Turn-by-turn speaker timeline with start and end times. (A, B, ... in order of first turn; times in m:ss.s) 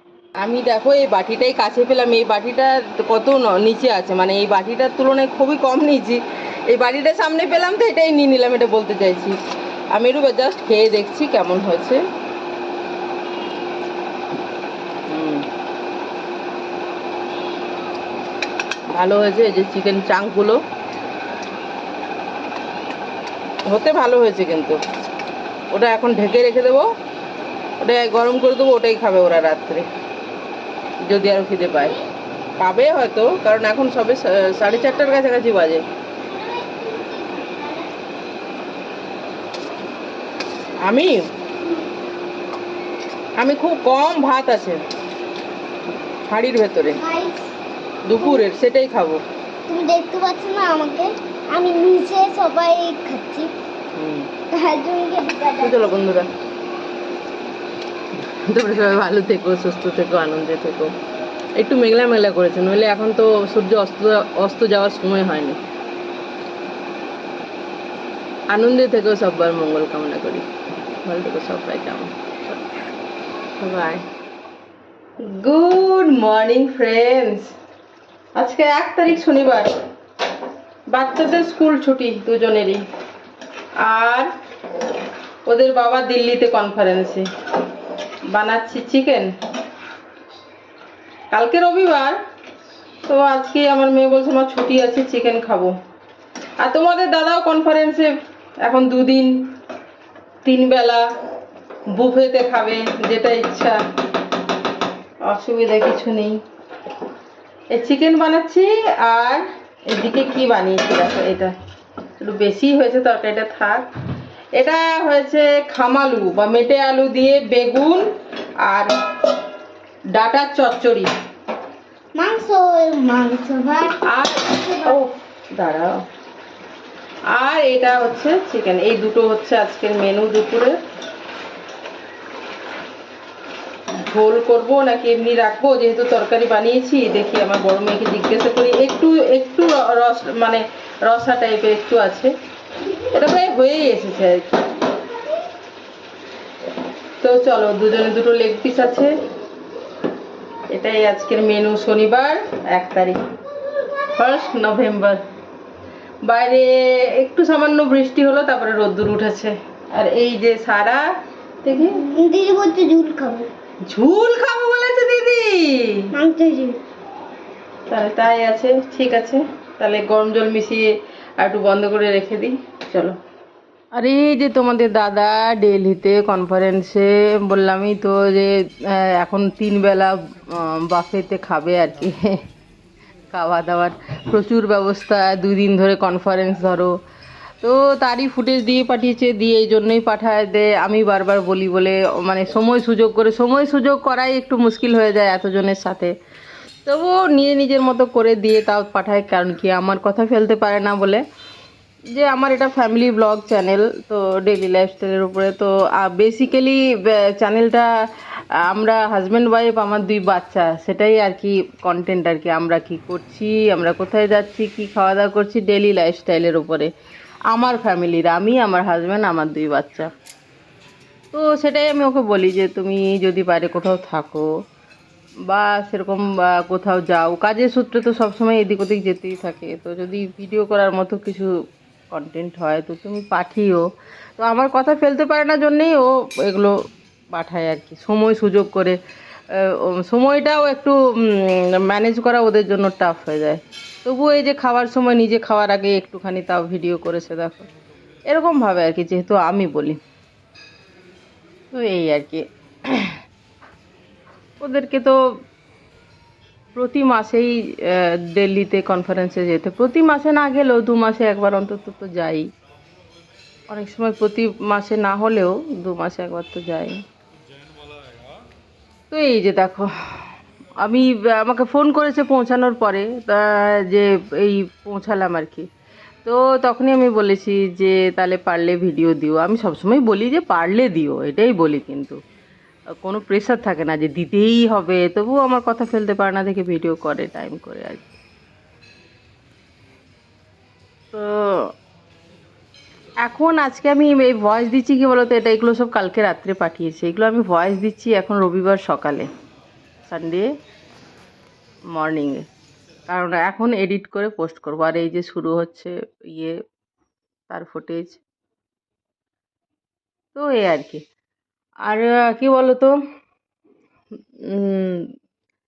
0:00.4-0:09.4 A
0:09.9-0:12.0 A
0:15.1-0:15.4 A
0:18.9-0:20.6 A
0:23.7-0:24.8 A
0:25.7-0:26.9 A
0:27.8-0:29.8 A
0:31.1-0:32.0 A
0:32.6-0:35.8 A
0:34.7-0:35.2 B
0:36.2-0:37.9 B
0:40.8-0:41.3 A
0:43.4-0:44.8 A
0:46.3-0:47.0 A
0:46.9-0:47.5 B
0:48.0-0:49.2 A
0:48.2-0:48.4 B
0:49.7-0:53.5 B
0:53.9-0:54.3 A
0:54.5-0:55.9 B
0:55.6-0:56.3 A
0:58.4-1:00.9 A
1:01.6-1:05.6 A
1:08.5-1:10.4 A
1:11.0-1:12.6 A
1:13.6-1:14.0 A
1:15.2-1:17.5 A
1:18.4-1:19.7 A
1:20.9-1:22.8 A
1:23.8-1:24.3 A
1:25.5-1:27.2 A
1:28.3-1:29.3 A
1:31.3-1:32.2 A
1:33.0-1:35.7 A
1:36.6-1:38.1 A
1:38.6-1:39.3 A
1:40.4-1:41.0 A
1:41.9-1:43.8 A
1:45.2-1:46.4 A
1:47.7-1:51.5 A
1:52.2-1:53.9 A
1:54.6-1:58.0 A
1:58.6-1:58.9 A
2:00.1-2:01.1 A
2:02.1-2:05.0 B
2:04.0-2:06.0 A
2:07.3-2:10.7 A
2:14.0-2:22.3 A
2:23.1-2:24.6 A
2:27.2-2:29.1 A
2:30.7-2:33.2 A
2:34.1-2:35.2 A
2:36.2-2:41.0 A
2:41.6-2:42.0 A
2:41.7-2:43.5 B
2:43.9-2:46.1 A
2:46.1-2:46.8 B
2:47.9-2:50.9 A
2:51.4-2:53.2 A
2:53.9-3:02.4 A
3:03.3-3:06.9 A
3:07.6-3:16.1 A
3:16.8-3:21.2 A
3:22.1-3:27.9 A
3:28.6-3:36.9 A
3:37.5-3:40.1 A
3:41.3-3:44.5 A
3:45.5-3:51.5 A
3:52.1-3:53.9 A
3:54.4-3:56.8 A
3:57.3-3:59.0 A
3:59.5-4:07.7 A
4:08.3-4:10.0 A
4:11.7-4:13.1 A
4:14.6-4:15.2 A
4:16.7-4:22.5 A
4:23.7-4:27.0 A
4:29.1-4:29.9 A
4:30.8-4:35.7 A
4:36.2-4:42.2 A
4:43.0-4:48.2 A
4:51.1-4:51.7 A
4:53.2-4:59.3 A
5:00.1-5:00.5 A
5:01.9-5:02.4 A
5:03.1-5:06.6 A
5:07.5-5:08.2 A
5:10.3-5:11.0 A
5:11.9-5:13.0 A
5:14.5-5:15.1 A